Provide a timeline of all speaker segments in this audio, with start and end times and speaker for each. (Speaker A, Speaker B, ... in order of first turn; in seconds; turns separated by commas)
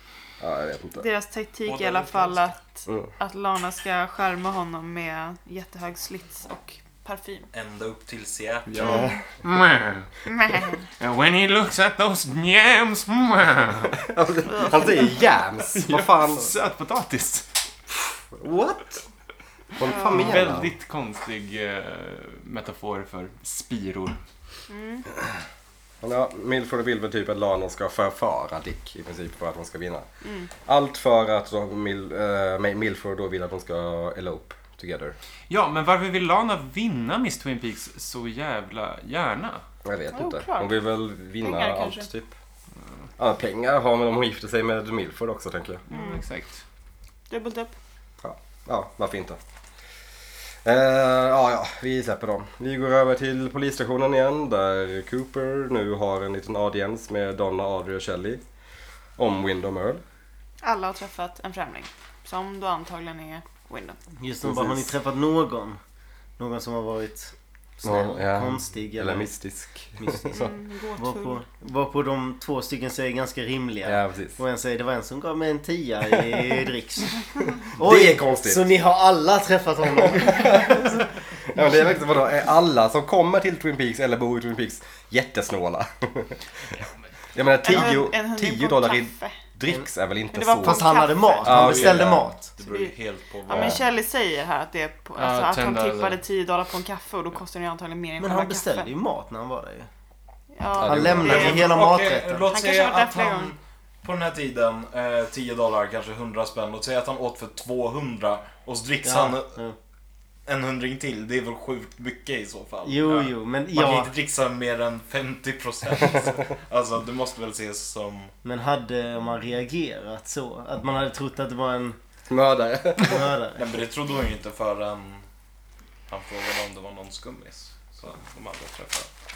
Speaker A: 0.4-1.1, Speaker B: 1.0-7.5, Speaker C: 1.6-2.5, Speaker C: 7.5-9.0, Speaker D: 8.7-10.1, Speaker B: 8.8-9.2, Speaker A: 8.8-9.1, Speaker B: 10.2-10.8, Speaker D: 11.0-14.0, Speaker A: 14.1-16.5, Speaker B: 14.4-15.1, Speaker D: 15.7-17.5, Speaker A: 18.3-19.0, Speaker A: 19.8-20.7, Speaker B: 19.8-20.4, Speaker D: 20.1-24.2, Speaker B: 24.7-25.1, Speaker A: 26.0-30.1, Speaker B: 30.2-30.5, Speaker A: 30.6-35.1, Speaker D: 35.5-39.6, Speaker A: 39.8-42.3, Speaker B: 40.1-40.8, Speaker B: 41.4-42.1, Speaker A: 43.2-45.8, Speaker D: 45.9-46.6, Speaker B: 45.9-46.2, Speaker B: 47.3-47.7, Speaker A: 48.2-49.4, Speaker A: 50.6-58.4, Speaker A: 59.2-60.0, Speaker B: 60.6-64.0, Speaker E: 64.2-65.8, Speaker A: 64.4-64.9, Speaker E: 66.4-69.3, Speaker A: 67.8-70.5, Speaker E: 70.0-81.0, Speaker B: 70.3-71.4, Speaker A: 73.8-74.4, Speaker A: 77.8-78.7, Speaker A: 80.3-86.4, Speaker A: 87.3-92.2, Speaker B: 87.6-89.4, Speaker B: 90.3-91.7, Speaker E: 90.6-92.5, Speaker C: 91.4-93.8, Speaker B: 92.6-92.9, Speaker B: 93.5-98.9, Speaker A: 93.5-93.8, Speaker D: 95.2-96.2, Speaker E: 98.2-99.9, Speaker B: 100.5-101.7, Speaker A: 100.8-101.6, Speaker E: 100.8-102.5, Speaker C: 101.2-109.6, Speaker B: 102.5-103.5, Speaker E: 109.0-109.8, Speaker C: 110.5-118.3, Speaker E: 112.8-114.1, Speaker E: 118.4-122.0, Speaker A: 122.3-123.3, Speaker E: 123.0-123.7, Speaker C: 123.5-125.2, Speaker C: 126.1-129.1